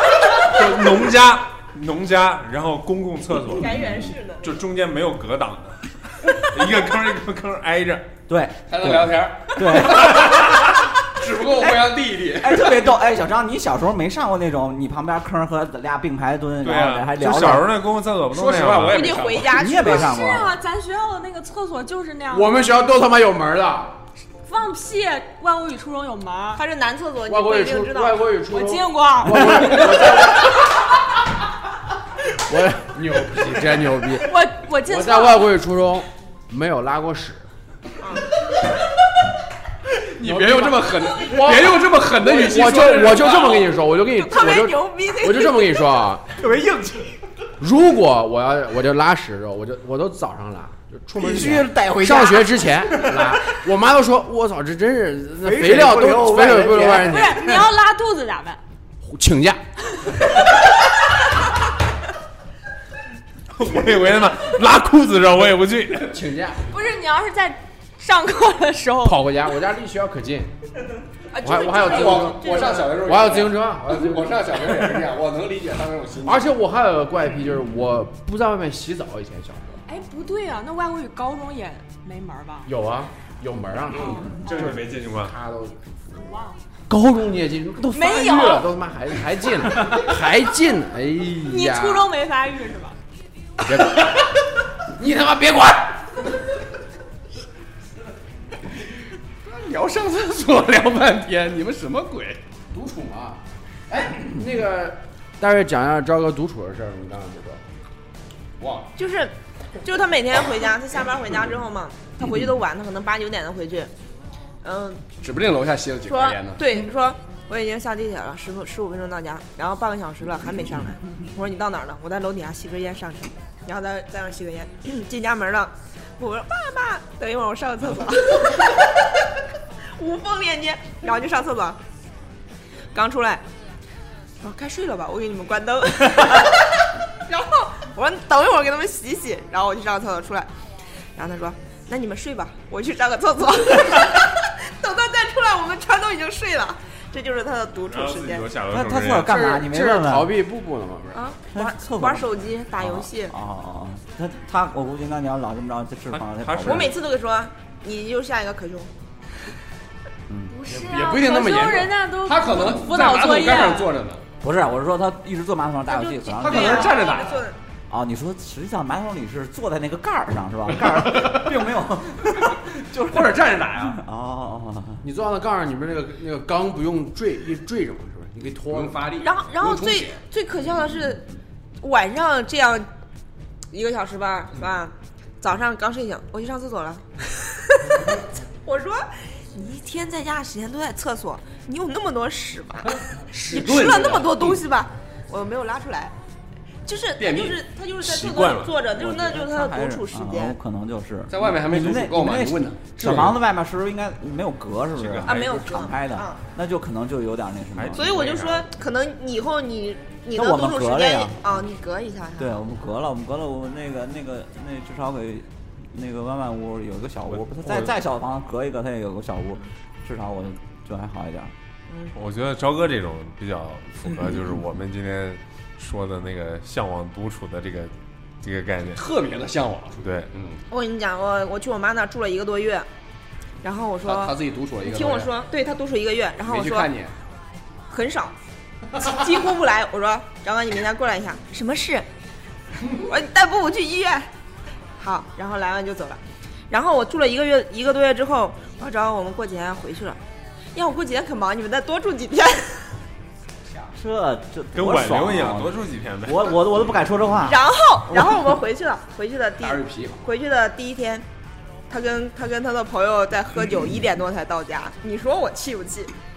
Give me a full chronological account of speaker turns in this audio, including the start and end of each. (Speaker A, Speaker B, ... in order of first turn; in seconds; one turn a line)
Speaker A: 0.3-8.1
Speaker B: 3.5-4.5
Speaker C: 8.3-10.4
Speaker D: 8.7-12.8
Speaker C: 12.4-17.7
Speaker A: 16.6-19.3
Speaker D: 18.3-19.6
Speaker B: 18.9-20.2
Speaker C: 19.5-20.5
Speaker E: 19.7-22.6
Speaker F: 22.3-24.0
Speaker E: 24.4-26.6
Speaker B: 26.5-28.3
Speaker F: 27.3-30.7
Speaker E: 28.4-29.9
Speaker F: 32.3-37.5
Speaker E: 34.2-35.5
Speaker D: 40.1-43.8
Speaker F: 40.2-46.3
Speaker B: 44.0-46.1
Speaker C: 46.4-47.2
Speaker F: 47.6-57.7
Speaker C: 51.2-53.3
Speaker C: 55.4-57.5
Speaker E: 57.0-58.6
Speaker F: 59.0-59.6
Speaker A: 63.5-66.2
Speaker F: 66.1-66.7
Speaker E: 66.6-69.2
Speaker F: 69.0-70.5
Speaker F: 71.3-74.7
Speaker B: 71.4-73.0
Speaker E: 71.4-72.2
Speaker D: 71.7-76.5
Speaker F: 76.2-79.8
Speaker E: 79.9-82.7
Speaker F: 82.7-86.3
Speaker A: 84.4-85.3
Speaker E: 86.2-86.6
Speaker F: 86.9-92.1
Speaker E: 87.9-88.7
Speaker E: 91.4-93.0
Speaker F: 93.6-94.3
Speaker F: 94.8-96.2
Speaker D: 99.4-102.4
Speaker F: 102.7-107.6
Speaker D: 108.6-108.9
Speaker B: 109.0-113.9
Speaker B: 114.6-115.0
Speaker D: 115.2-116.6
Speaker B: 116.1-129.1
Speaker B: 129.9-131.8
Speaker B: 132.9-133.4
Speaker B: 134.4-140.5
Speaker B: 141.2-148.5
Speaker A: 147.9-149.3
Speaker C: 148.7-150.3
Speaker F: 149.2-151.2
Speaker B: 151.1-153.3
Speaker C: 151.5-156.9
Speaker A: 156.1-156.9
Speaker B: 156.6-158.9
Speaker C: 160.3-160.5
Speaker E: 160.5-163.9
Speaker F: 160.7-161.8
Speaker D: 160.9-164.2
Speaker C: 164.4-166.9
Speaker B: 165.9-167.6
Speaker D: 166.4-167.5
Speaker C: 167.9-175.0
Speaker D: 171.2-171.4
Speaker D: 172.9-174.0
Speaker F: 175.0-179.1
Speaker D: 178.7-180.2
Speaker B: 179.2-181.3
Speaker B: 181.8-182.9
Speaker B: 183.7-196.1
Speaker D: 193.3-194.6
Speaker B: 196.8-200.6
Speaker D: 197.2-197.6
Speaker A: 198.0-198.8
Speaker C: 198.9-208.1
Speaker D: 201.3-203.4
Speaker A: 205.0-205.6
Speaker B: 205.2-206.4
Speaker A: 207.8-208.7
Speaker B: 207.9-212.5
Speaker C: 210.3-211.4
Speaker C: 212.4-221.5
Speaker A: 217.3-217.9
Speaker A: 222.1-229.0
Speaker D: 228.9-230.6
Speaker A: 230.0-230.3
Speaker B: 230.7-232.9
Speaker B: 233.6-236.9
Speaker D: 234.0-235.3
Speaker D: 236.4-237.1
Speaker B: 237.9-238.3
Speaker B: 238.9-242.1
Speaker B: 242.9-244.3
Speaker B: 245.0-250.2
Speaker B: 250.7-252.9
Speaker C: 253.9-257.6
Speaker A: 254.7-256.6
Speaker B: 257.4-261.2
Speaker D: 259.6-260.2
Speaker B: 261.9-266.1